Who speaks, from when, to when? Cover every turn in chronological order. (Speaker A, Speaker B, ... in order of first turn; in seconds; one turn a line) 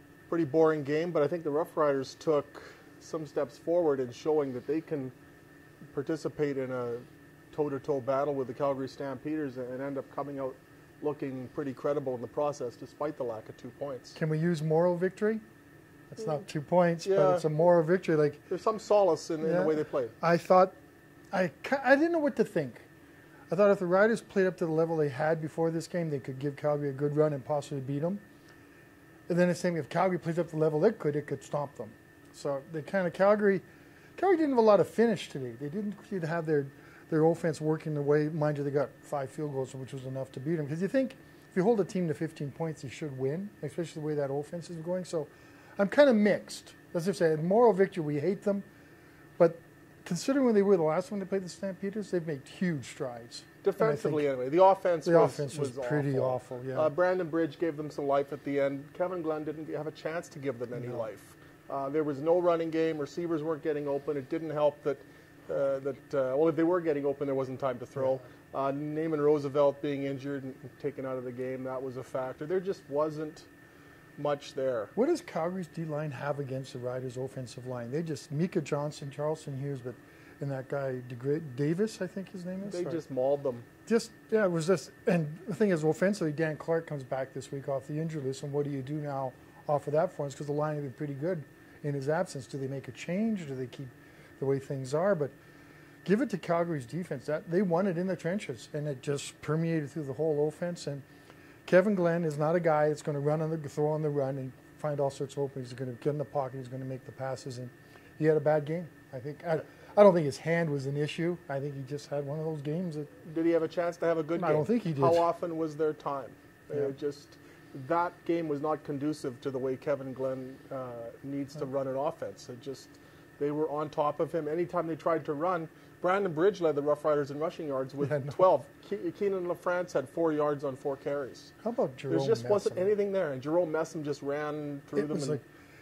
Speaker A: 0.3-5.1
Speaker A: 5.9-14.2
Speaker B: 14.2-15.4
Speaker B: 16.1-18.5
Speaker A: 17.0-17.5
Speaker A: 18.5-20.1
Speaker B: 19.4-20.7
Speaker B: 21.3-22.9
Speaker B: 23.5-28.2
Speaker B: 29.3-33.6
Speaker B: 34.1-48.6
Speaker B: 49.4-54.2
Speaker A: 53.6-73.5
Speaker B: 55.0-56.9
Speaker B: 60.8-61.0
Speaker A: 74.2-74.9
Speaker B: 75.0-83.0
Speaker A: 82.6-83.7
Speaker B: 83.9-95.3
Speaker B: 96.0-101.0
Speaker B: 101.7-113.1
Speaker A: 113.2-131.5
Speaker B: 114.3-115.2
Speaker B: 128.0-128.3
Speaker B: 131.6-132.9
Speaker A: 132.1-135.4
Speaker B: 134.9-135.4